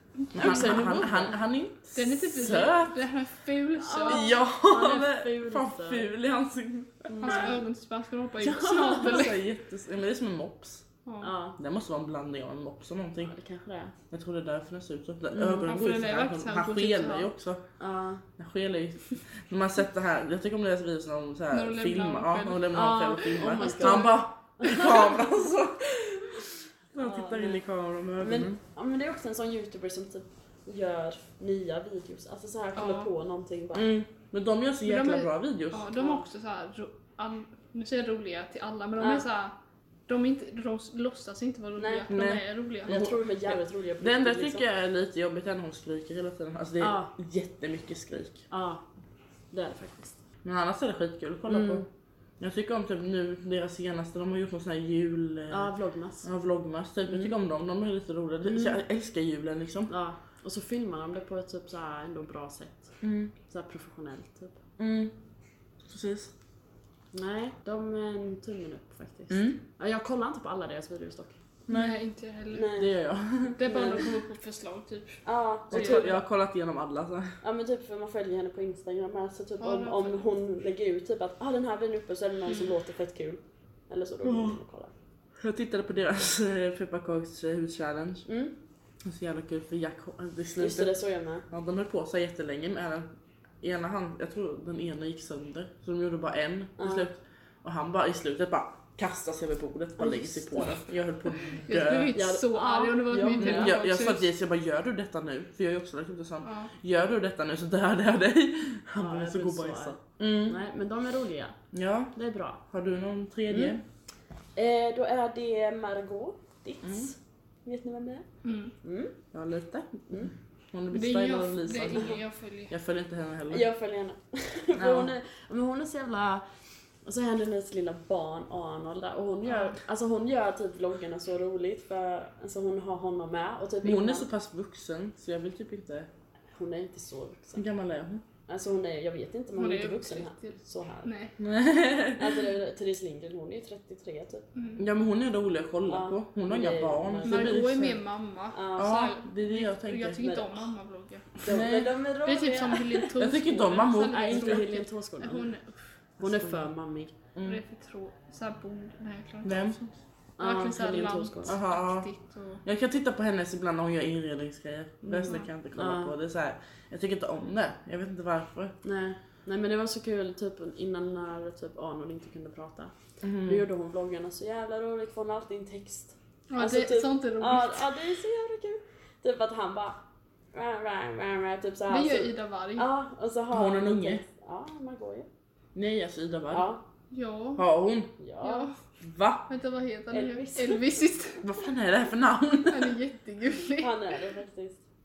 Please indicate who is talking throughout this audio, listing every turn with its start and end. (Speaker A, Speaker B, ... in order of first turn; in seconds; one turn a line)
Speaker A: 0.2-1.1
Speaker B: 0.3-2.9
Speaker C: 0.3-1.4
Speaker A: 1.9-4.3
Speaker C: 3.8-6.1
Speaker B: 4.0-7.5
Speaker C: 7.1-7.6
Speaker A: 7.2-9.4
Speaker B: 8.4-10.8
Speaker C: 8.6-9.3
Speaker A: 11.1-11.3
Speaker C: 11.2-11.6
Speaker B: 11.6-13.3
Speaker C: 13.2-13.9
Speaker B: 14.1-17.6
Speaker C: 15.3-15.7
Speaker A: 15.6-17.3
Speaker C: 17.8-18.2
Speaker B: 18.4-28.6
Speaker A: 21.5-24.2
Speaker C: 22.7-25.2
Speaker C: 27.0-27.6
Speaker C: 28.2-33.9
Speaker A: 32.8-33.1
Speaker B: 33.7-35.9
Speaker A: 34.8-39.5
Speaker C: 36.0-36.2
Speaker C: 39.0-39.2
Speaker A: 40.1-43.0
Speaker C: 41.8-42.1
Speaker B: 42.1-48.4
Speaker C: 42.8-44.6
Speaker C: 46.8-47.1
Speaker C: 48.5-48.8
Speaker C: 49.5-50.2
Speaker B: 50.4-51.9
Speaker C: 51.5-51.9
Speaker B: 52.4-55.7
Speaker C: 55.5-56.3
Speaker B: 56.2-59.9
Speaker C: 57.1-57.3
Speaker C: 58.5-58.8
Speaker C: 59.9-64.6
Speaker B: 63.0-63.3
Speaker B: 64.8-65.2
Speaker B: 65.8-66.3
Speaker C: 67.1-71.4
Speaker B: 69.3-69.6
Speaker B: 71.7-71.9
Speaker A: 71.7-72.8
Speaker C: 72.5-72.9
Speaker B: 72.7-73.6
Speaker A: 73.5-76.2
Speaker C: 73.6-74.1
Speaker C: 75.2-76.2
Speaker B: 75.7-77.4
Speaker C: 77.4-84.9
Speaker A: 79.6-80.2
Speaker B: 84.2-84.6
Speaker B: 85.4-88.3
Speaker C: 88.3-88.5
Speaker B: 89.0-91.0
Speaker C: 90.6-91.5
Speaker B: 91.5-93.1
Speaker B: 93.6-102.1
Speaker C: 96.8-97.1
Speaker C: 100.0-100.8
Speaker A: 101.7-104.3
Speaker C: 102.1-103.8
Speaker B: 103.4-110.6
Speaker A: 106.4-106.7
Speaker C: 109.0-111.6
Speaker B: 111.7-112.1
Speaker C: 112.1-112.6
Speaker B: 112.7-113.8
Speaker C: 113.5-113.8
Speaker C: 114.5-118.2
Speaker B: 116.8-117.1
Speaker A: 118.4-118.7
Speaker C: 118.8-119.2
Speaker B: 119.3-123.7
Speaker A: 120.9-122.7
Speaker C: 123.5-126.4
Speaker B: 124.7-125.1
Speaker C: 127.0-134.3
Speaker B: 133.8-136.1
Speaker C: 136.5-137.6
Speaker B: 137.5-138.2
Speaker C: 138.5-141.1
Speaker A: 139.6-141.3
Speaker B: 141.4-142.3
Speaker C: 142.2-144.4
Speaker A: 144.5-144.8
Speaker B: 144.8-148.0
Speaker C: 145.8-147.7
Speaker A: 147.2-151.4
Speaker C: 148.5-149.0
Speaker B: 148.8-150.2
Speaker C: 150.2-150.7
Speaker C: 151.4-153.0
Speaker B: 151.4-151.9
Speaker A: 152.2-155.8
Speaker B: 153.2-154.7
Speaker C: 154.0-155.5
Speaker B: 156.2-156.6
Speaker C: 156.2-157.2
Speaker B: 157.3-157.6
Speaker A: 157.4-162.6
Speaker B: 159.4-159.8
Speaker C: 160.4-161.6
Speaker B: 161.4-162.1
Speaker B: 162.6-168.8
Speaker C: 165.1-166.1
Speaker A: 165.2-165.5
Speaker C: 168.8-180.0
Speaker B: 173.2-173.6
Speaker A: 176.5-177.9
Speaker C: 180.5-185.3
Speaker A: 181.9-182.9
Speaker B: 183.5-184.2
Speaker B: 185.7-186.7
Speaker C: 186.5-186.8
Speaker A: 187.1-187.6
Speaker B: 187.6-188.1
Speaker C: 188.2-188.7
Speaker A: 188.4-188.8
Speaker B: 189.0-189.5
Speaker A: 189.5-191.4
Speaker C: 190.1-191.0
Speaker B: 191.4-192.9
Speaker A: 192.7-193.9
Speaker C: 193.8-194.8